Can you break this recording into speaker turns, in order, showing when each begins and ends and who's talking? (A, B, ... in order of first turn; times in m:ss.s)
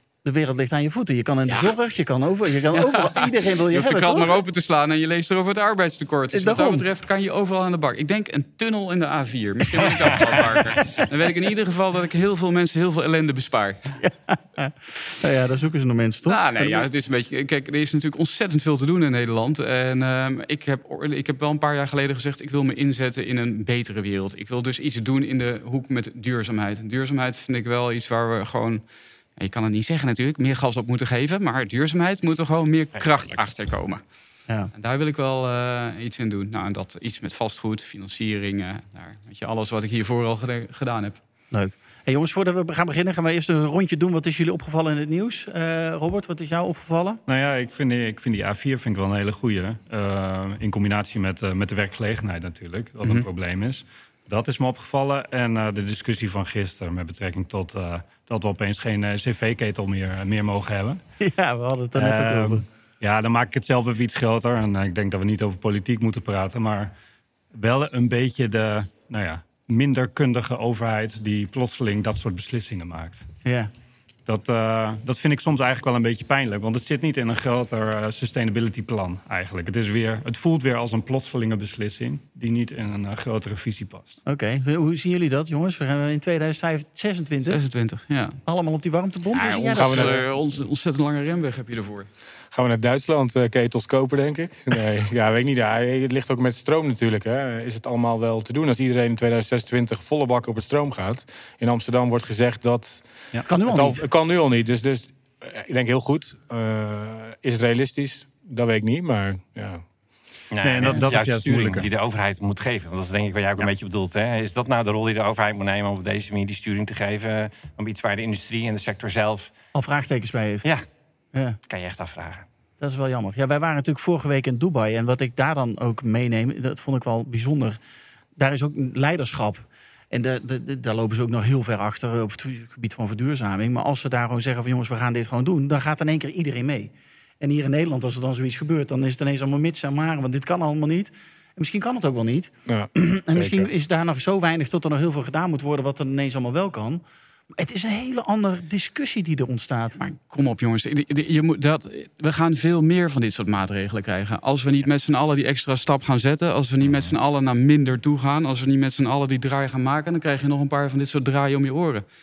0:00.2-0:04.4 A
0:02.7-0:14.0 B
0:06.3-0:06.8 A
0:14.0-0:16.9 A
0:16.2-0:28.8 B
0:29.4-0:34.0 B
0:32.9-0:33.4 C
0:34.7-0:41.2 B
0:41.5-0:47.2 A
0:47.3-1:01.0 D
1:01.2-1:02.6 A
1:02.0-1:06.9 D
1:07.5-1:13.3 D
1:13.4-1:13.7 A
1:14.2-1:24.2 D
1:24.2-1:27.6 A
1:27.5-1:28.4 B
1:28.4-1:30.2 A
1:29.3-1:32.1 B
1:29.7-1:30.2 E
1:32.5-1:43.0 E
1:43.4-1:44.0 A
1:43.6-1:49.8 E
1:50.5-1:59.5 C
1:50.6-1:51.9 D
1:59.7-2:00.7 A
2:01.7-2:02.4 C
2:02.8-2:07.8 A
2:08.4-2:27.0 A
2:22.7-2:23.7 E
2:27.5-2:30.0 A
2:30.0-2:42.0 B